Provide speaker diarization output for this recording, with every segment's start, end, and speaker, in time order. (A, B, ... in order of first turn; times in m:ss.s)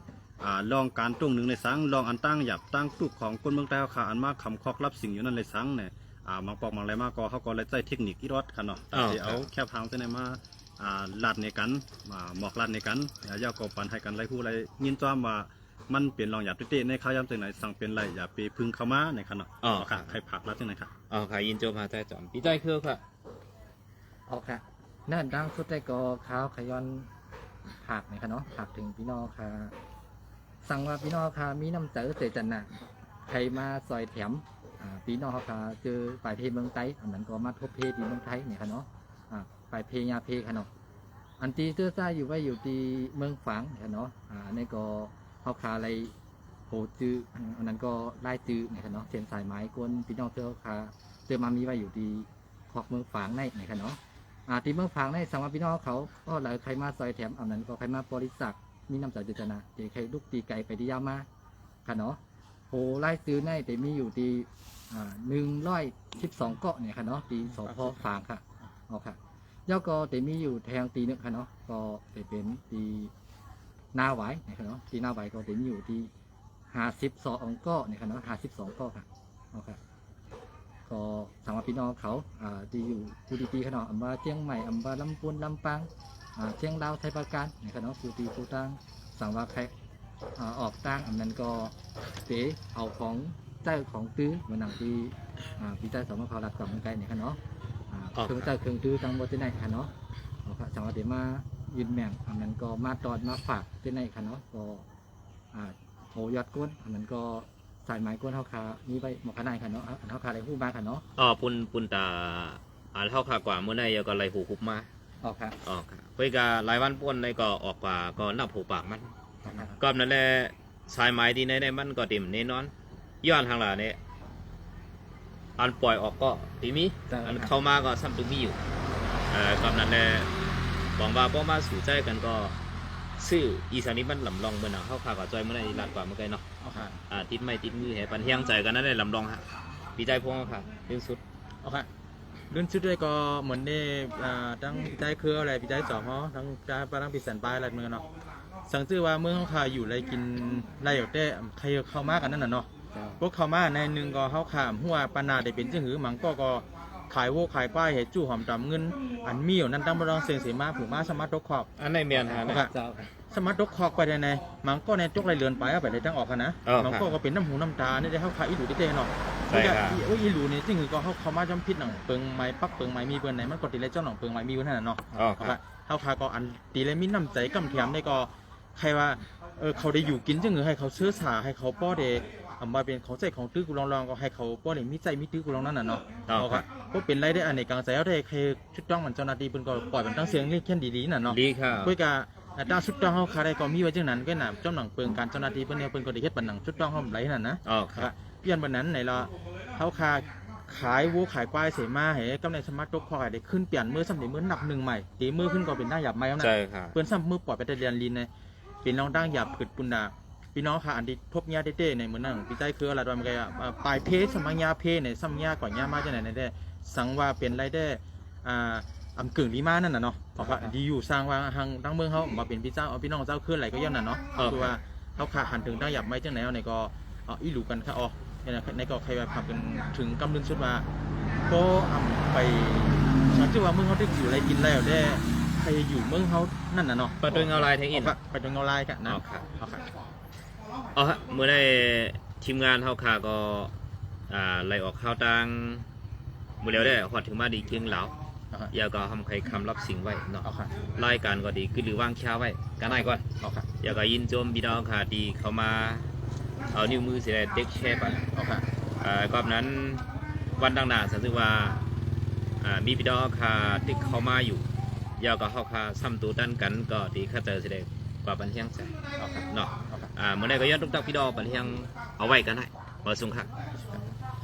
0:00.4-0:20.9 A
0:08.9-0:09.5 B
0:19.6-0:20.1 B
0:21.1-0:23.0 B
0:24.3-0:27.1 C
0:27.8-0:29.7 C
0:30.6-0:32.7 C
0:33.3-0:40.7 C
0:41.4-0:46.1 C
0:46.7-1:01.3 C
1:01.8-1:02.2 C
1:02.7-1:13.1 C
1:07.6-1:08.0 D
1:13.9-1:16.1 C
1:16.7-1:19.8 C
1:20.9-1:29.7 C
1:30.4-1:31.8 C
1:32.3-1:37.4 C
1:37.9-1:39.9 C
1:38.2-1:38.5 B
1:40.4-1:44.9 C
1:45.5-1:51.1 C
1:51.2-1:54.9 B
1:55.2-1:55.6 C
1:55.6-2:04.0 B
1:59.5-1:59.8 D
2:05.6-2:08.6 B
2:07.1-2:07.5 C
2:09.3-2:10.3 B
2:11.0-2:12.6 B
2:13.2-2:16.4 B
2:16.6-2:17.0 D
2:17.1-2:21.2 B
2:21.6-2:21.9 D
2:22.5-2:28.0 D
2:28.7-2:41.7 D
2:32.9-2:33.2 C
2:41.8-2:42.7 B
2:42.1-2:43.1 C
2:42.3-2:42.7 D
2:43.3-3:28.3 D
2:46.7-2:47.1 B
2:49.5-2:50.0 B
2:55.1-2:55.6 B
3:06.3-3:06.6 B
3:11.3-3:12.0 B
3:17.7-3:18.1 B
3:26.4-3:27.0 B
3:28.8-3:50.9 D
3:40.4-3:40.7 C
3:44.4-3:44.7 B
3:51.5-3:59.9 D
3:57.2-3:58.2 B
3:59.1-3:59.4 B
4:01.0-4:03.7 B
4:04.3-4:05.8 B
4:06.6-4:08.2 B
4:08.7-4:13.2 B
4:10.4-4:10.8 D
4:12.9-4:13.8 D
4:13.8-4:16.1 B
4:16.7-4:18.3 B
4:18.3-4:18.6 D
4:19.0-4:20.0 B
4:20.6-4:21.8 B
4:22.6-4:24.7 B
4:25.2-4:29.0 B
4:29.2-4:30.1 D
4:29.5-4:33.5 B